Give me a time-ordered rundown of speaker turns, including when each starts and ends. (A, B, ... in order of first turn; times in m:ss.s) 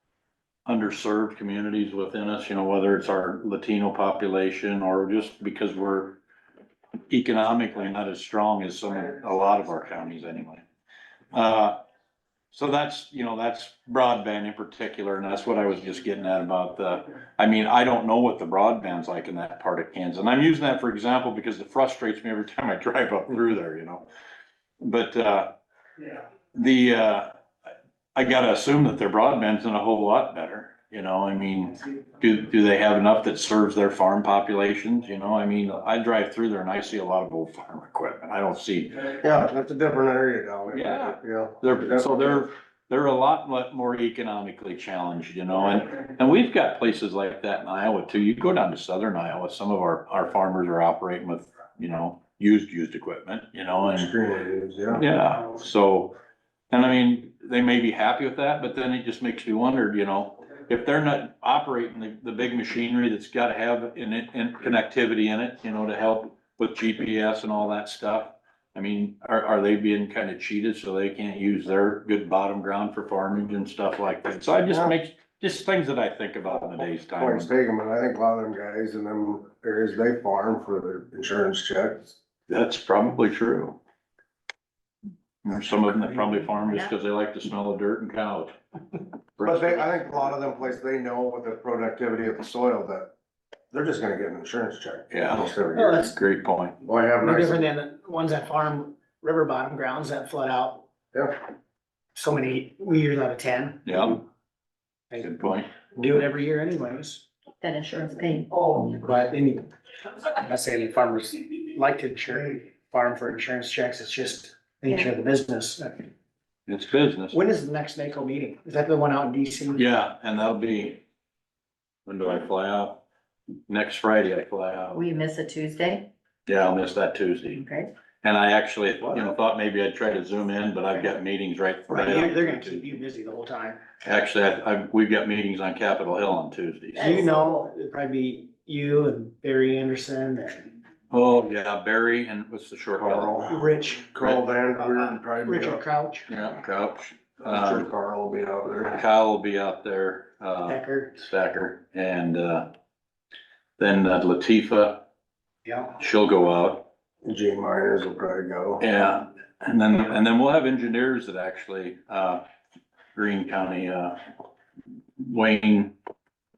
0:00.6-0:06.2 A
0:07.1-0:10.6 A
0:11.3-0:11.8 A
0:12.5-0:24.0 A
0:24.8-0:25.5 A
0:26.5-0:27.3 A
0:28.1-0:39.2 A
0:39.0-0:42.4 B
0:40.7-0:54.1 A
0:53.9-0:55.0 B
0:54.9-0:56.1 A
0:56.7-1:17.5 A
1:17.2-1:22.2 B
1:22.5-1:23.8 A
1:25.4-1:28.6 A
1:29.4-1:29.9 A
1:29.4-1:33.1 B
1:33.7-1:36.1 B
1:35.1-1:36.8 A
1:35.7-1:36.1 C
1:36.8-1:37.7 B
1:37.2-1:40.8 C
1:42.1-1:43.8 C
1:43.8-1:44.2 A
1:45.1-1:47.2 C
1:45.1-1:45.7 A
1:47.6-1:48.8 D
1:48.7-1:49.6 C
1:50.2-1:56.1 C
1:56.7-1:57.4 A
1:57.3-1:59.8 C
1:59.7-2:01.0 A
2:02.0-2:03.0 A
2:03.7-2:05.0 A
2:04.9-2:06.1 D
2:06.4-2:07.6 A
2:07.6-2:07.9 D
2:08.2-2:13.0 A
2:11.9-2:13.8 C
2:14.0-2:17.3 A
2:17.0-2:20.7 C
2:17.0-2:17.5 D
2:21.1-2:23.4 A
2:23.0-2:25.8 B
2:23.5-2:24.1 C
2:24.8-2:26.3 C
2:26.3-2:27.9 A
2:27.4-2:29.0 B
2:28.9-2:32.7 A
2:30.6-2:31.1 C
2:33.8-2:35.0 A
2:35.6-2:35.9 C
2:36.0-2:36.9 A
2:37.2-2:38.8 B
2:38.8-2:42.4 A
2:43.1-2:44.2 A
2:45.2-2:45.9 A